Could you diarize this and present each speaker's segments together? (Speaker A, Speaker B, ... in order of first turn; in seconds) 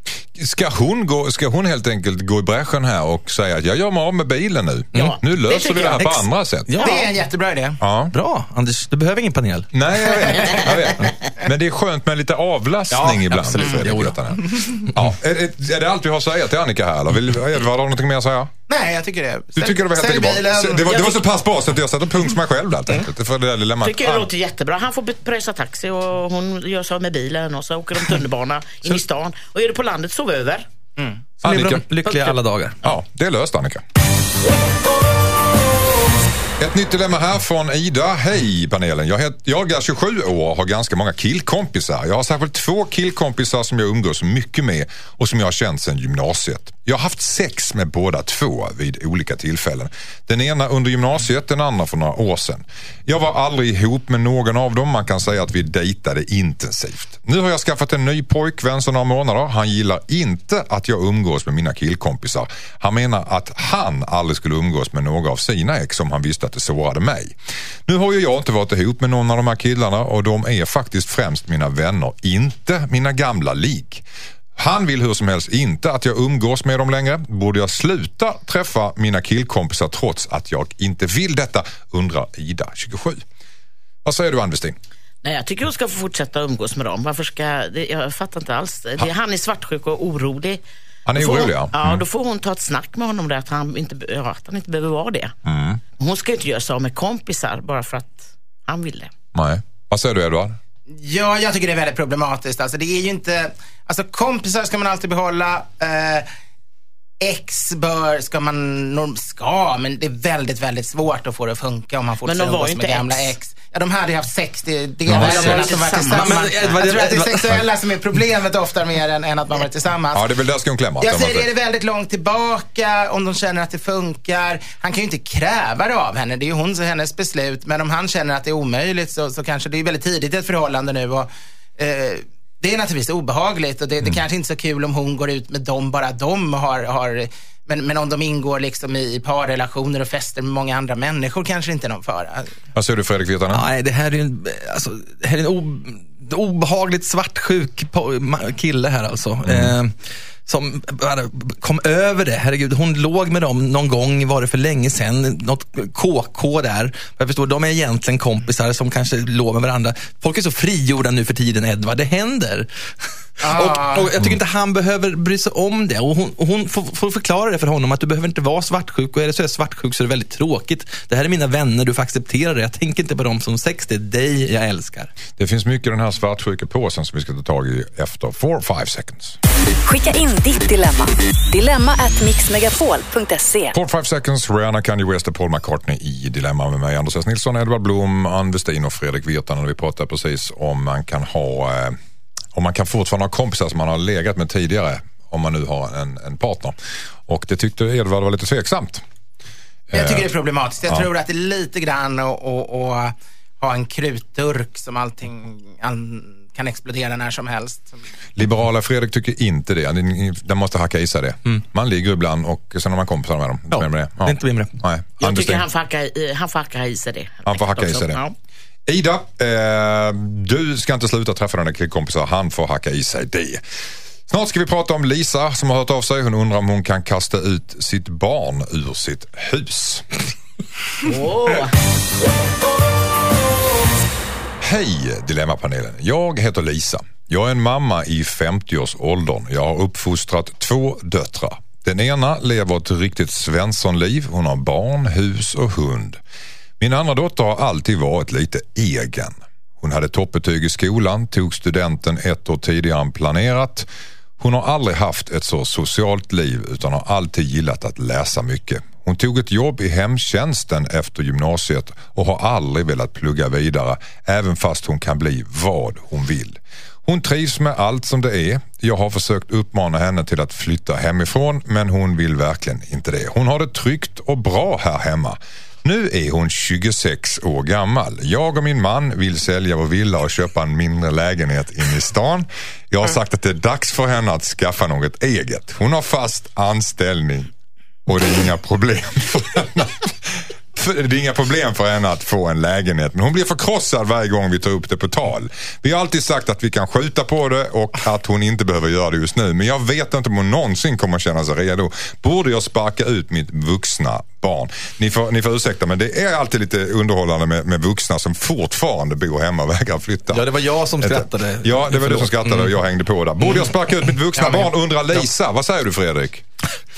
Speaker A: 0.3-6.7, 7.8-8.1, 9.7-18.5, 19.6-24.3, 31.4-31.8, 32.8-33.8, 36.6-67.3, 67.9-74.0, 74.5-83.2, 84.0-84.8, 91.0-92.0, 95.4-95.8, 99.3-100.6, 115.1-115.6, 120.1-121.5, 142.7-143.7, 149.4-149.7, 175.4-179.4, 183.7-192.0, 192.5-196.8, 197.3-199.0, 199.9-200.3, 208.4-215.6, 217.4-218.2, 218.8-223.6, 224.3-230.1, 234.6-246.2, 246.8-253.9, 254.4-287.5, 288.1-316.4
Speaker B: 4.9-6.1, 23.8-30.6, 32.0-32.3, 85.2-90.6, 91.1-95.3, 96.0-99.1, 112.2-113.3, 115.1-116.4, 215.2-218.3, 231.0-231.7
Speaker C: 6.0-7.1, 8.1-9.7, 12.9-15.1, 31.4-32.8, 116.1-117.6, 143.5-149.9, 150.4-175.1, 213.7-214.8, 310.3-312.7
Speaker D: 6.8-7.8, 14.4-14.7, 18.7-21.1, 100.9-106.2, 107.2-120.3, 121.0-142.5, 163.4-164.1, 199.9-208.0
Speaker E: 179.8-183.7